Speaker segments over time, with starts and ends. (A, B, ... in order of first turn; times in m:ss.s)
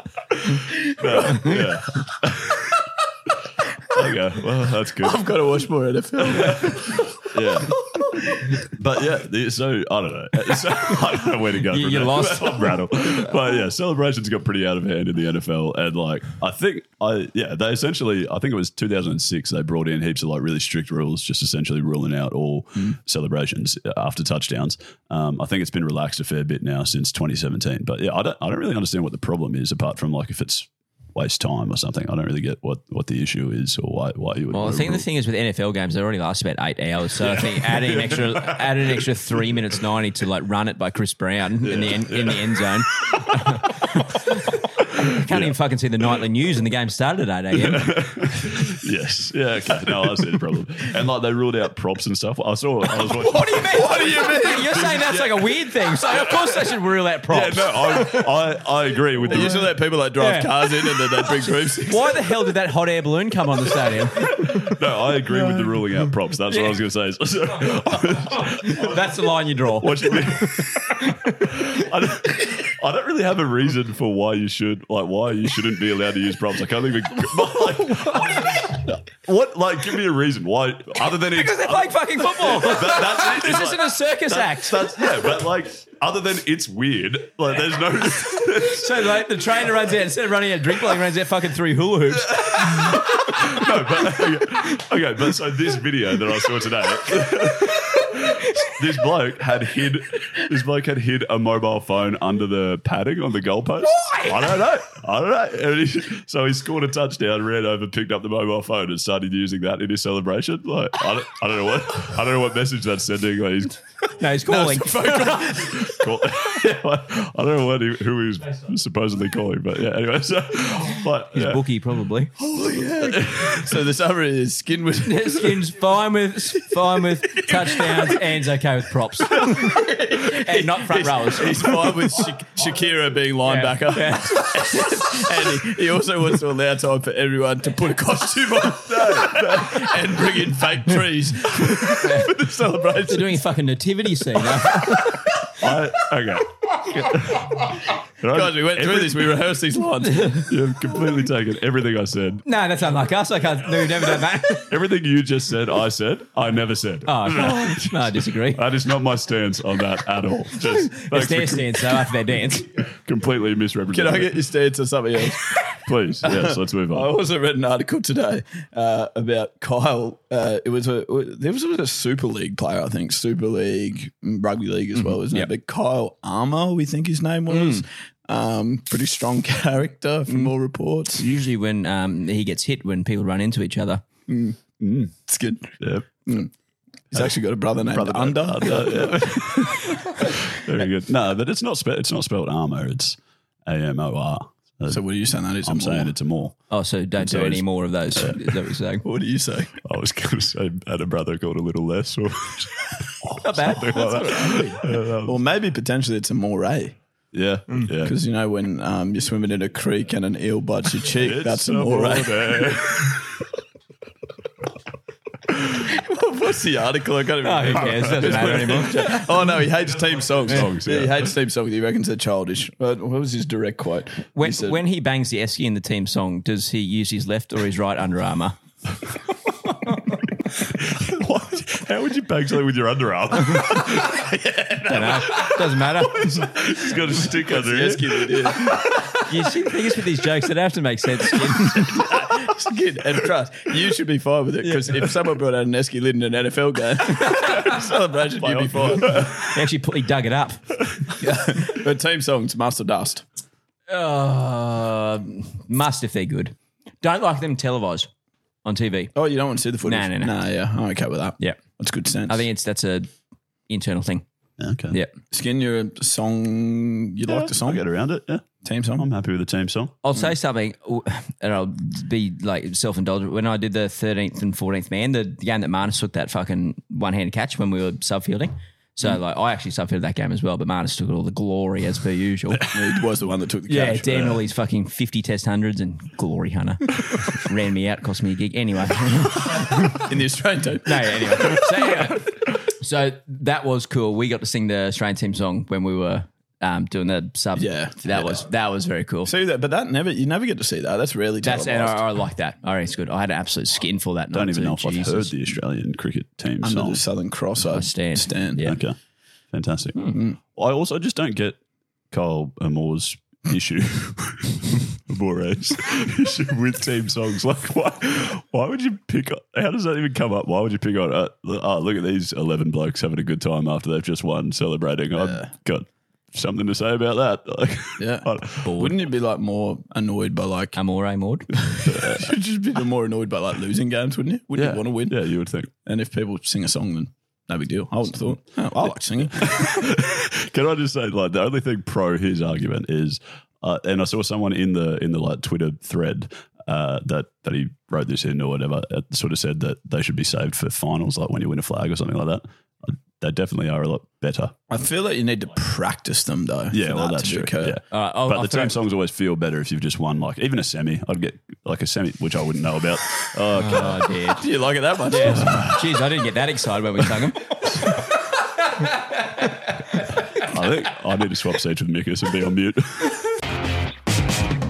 0:00.5-0:02.7 A
0:00.9-0:01.6 B
0:03.9-0:05.3 A
0:05.0-0:07.1 B
0:06.3-0:07.8 A
0:07.9-0:08.5 B
0:08.6-0:35.0 A
0:11.7-0:13.3 C
0:34.5-0:47.8 C
0:37.3-0:38.6 A
0:41.6-0:42.6 A
0:45.3-0:45.5 A
0:47.5-0:56.6 A
0:53.2-0:58.2 C
0:53.9-0:54.5 B
0:57.3-0:59.7 A
0:59.2-1:02.2 B
1:00.2-1:01.0 C
1:01.8-1:04.6 C
1:04.4-1:09.0 A
1:06.5-1:06.8 C
1:08.4-1:10.1 C
1:09.8-1:29.1 A
1:21.2-1:24.9 C
1:28.6-1:32.3 C
1:32.2-1:53.8 A
1:44.0-1:44.3 C
1:54.2-1:55.6 C
1:54.4-1:56.0 B
1:55.8-2:01.6 A
2:01.3-2:02.3 C
2:02.4-2:05.6 B
2:03.0-2:03.7 A
2:05.0-2:11.7 C
2:07.4-2:08.1 B
2:09.4-2:23.4 B
2:13.4-2:15.1 C
2:18.7-2:19.9 A
2:22.0-2:22.3 C
2:23.0-2:25.3 C
2:25.6-2:29.4 A
2:28.3-2:30.5 B
2:30.0-2:30.5 C
2:30.5-2:32.4 A
2:32.4-2:34.7 C
2:34.7-2:42.0 A
2:37.0-2:38.6 C
2:41.0-2:42.7 C
2:43.0-2:44.4 A
2:43.9-2:45.6 B
2:45.8-2:47.1 A
2:46.2-3:01.2 B
2:54.9-2:55.5 C
2:57.5-2:57.8 C
3:01.1-3:04.0 C
3:04.3-3:04.6 B
3:04.8-3:05.1 A
3:05.2-3:05.7 B
3:05.8-3:06.1 A
3:06.2-3:06.5 B
3:07.1-3:10.3 B
3:07.1-3:16.6 A
3:14.9-3:16.1 B
3:16.7-3:19.0 C
3:17.2-3:17.6 A
3:19.0-3:19.8 B
3:19.8-3:25.4 A
3:23.4-3:24.8 C
3:25.2-3:27.0 B
3:27.3-3:28.2 A
3:27.8-3:32.6 B
3:31.2-3:33.3 A
3:35.7-3:44.8 B
3:37.4-3:39.2 C
3:37.8-3:38.6 A
3:40.4-3:41.3 A
3:44.4-3:48.6 C
3:50.8-3:55.6 A
3:54.9-3:56.5 C
3:56.2-3:58.6 A
3:57.2-3:59.0 B
3:59.2-4:02.0 C
4:01.8-4:09.2 B
4:04.6-4:05.0 C
4:08.4-4:09.5 A
4:09.4-4:10.6 C
4:11.2-4:13.2 B
4:13.9-4:18.1 C
4:18.6-4:19.1 C
4:19.1-4:22.4 B
4:19.8-4:20.4 C
4:22.2-4:23.1 C
4:23.7-4:24.2 C
4:24.6-4:25.0 A
4:25.3-4:27.8 B
4:27.3-4:29.9 A
4:28.6-4:29.1 B
4:30.0-4:42.6 C
4:42.7-4:44.4 B
4:43.7-4:50.0 C
4:49.9-4:51.6 B
4:50.8-4:59.3 C
4:57.5-4:58.4 B
4:59.2-5:02.0 B
5:01.4-5:05.4 C
5:04.3-5:07.0 A
5:06.6-5:08.6 B
5:07.7-5:08.8 C
5:08.6-5:09.0 A
5:09.5-5:11.6 A
5:10.1-5:10.4 B
5:12.1-5:28.7 A
5:25.2-5:25.5 B
5:28.0-5:30.8 B
5:28.6-5:28.9 C
5:30.7-5:31.7 C
5:31.7-5:35.2 B
5:31.8-5:32.3 A
5:34.5-5:35.7 A
5:35.8-5:39.6 B
5:39.4-5:54.6 A
5:54.7-5:57.8 B
5:56.7-6:04.0 A
5:57.9-5:58.8 C
6:03.6-6:04.5 C
6:04.4-6:05.8 B
6:05.1-6:07.6 C
6:05.4-6:05.8 A
6:10.3-6:13.1 A